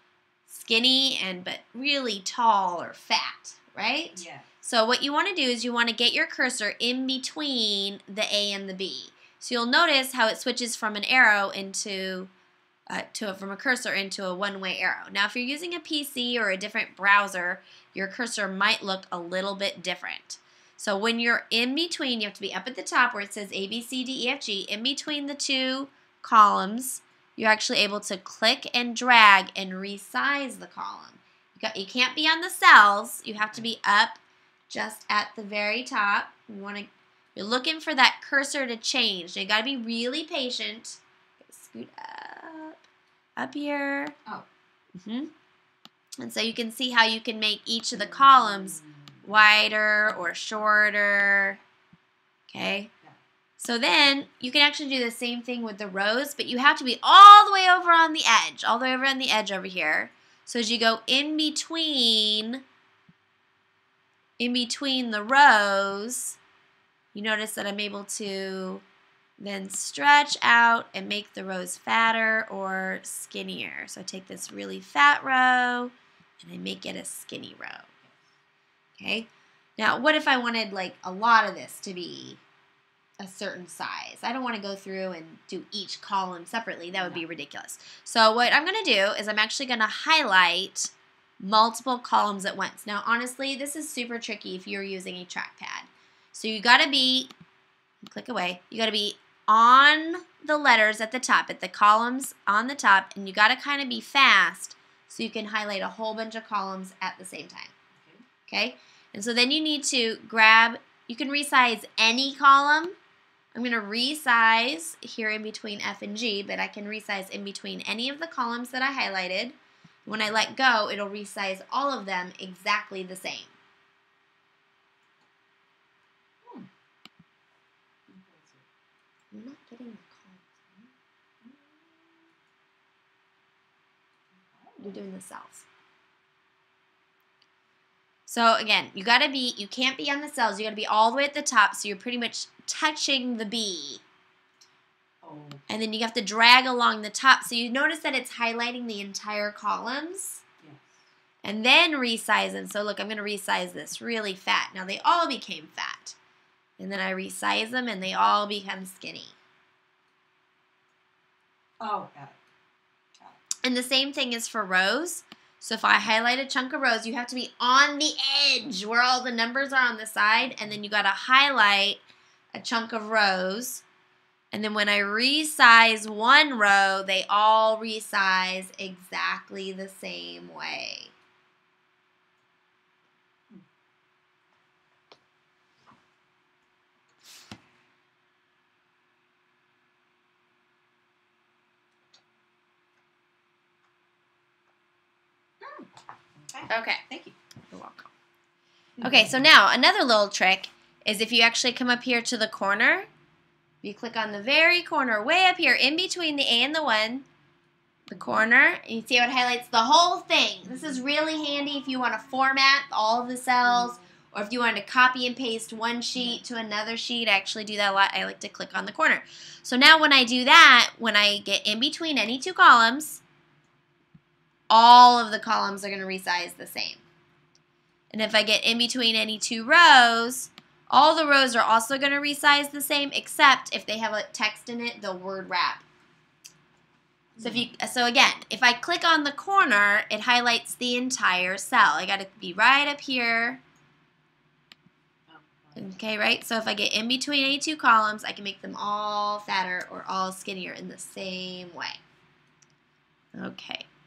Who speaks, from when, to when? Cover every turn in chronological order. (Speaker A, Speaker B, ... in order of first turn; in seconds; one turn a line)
Speaker A: 0.5-12.3
Speaker B: 4.1-4.5
Speaker A: 12.9-42.8
Speaker B: 33.4-33.6
Speaker A: 43.4-44.2
Speaker A: 45.0-45.3
Speaker A: 46.2-51.6
Speaker B: 48.0-49.5
Speaker A: 52.5-52.9
Speaker A: 53.6-62.6
Speaker A: 64.4-66.4
Speaker A: 67.1-68.8
Speaker A: 69.4-77.9
Speaker A: 79.0-82.4
Speaker A: 83.2-97.3
Speaker B: 86.9-87.2
Speaker A: 98.0-107.7
Speaker B: 108.0-108.2
Speaker A: 108.5-113.0
Speaker A: 113.5-123.5
Speaker B: 120.0-120.5
Speaker B: 126.4-126.7
Speaker B: 128.1-128.7
Speaker A: 129.3-130.9
Speaker B: 131.4-132.3
Speaker B: 134.4-135.0
Speaker A: 134.8-135.7
Speaker A: 138.3-144.0
Speaker B: 145.2-145.7
Speaker A: 145.7-150.4
Speaker B: 150.6-151.0
Speaker A: 151.4-156.2
Speaker A: 156.8-159.4
Speaker B: 161.8-162.4
Speaker A: 163.6-172.0
Speaker A: 172.5-173.8
Speaker A: 174.5-181.1
Speaker B: 196.4-197.4
Speaker A: 196.7-197.0
Speaker A: 197.7-198.1
Speaker B: 199.0-199.3
Speaker A: 199.0-203.1
Speaker A: 203.8-207.2
Speaker A: 208.1-223.2
Speaker A: 224.7-227.0
Speaker A: 228.1-235.8
Speaker B: 237.4-237.7
Speaker A: 237.4-243.6
Speaker B: 245.3-246.0
Speaker A: 245.8-252.0
Speaker A: 253.3-253.9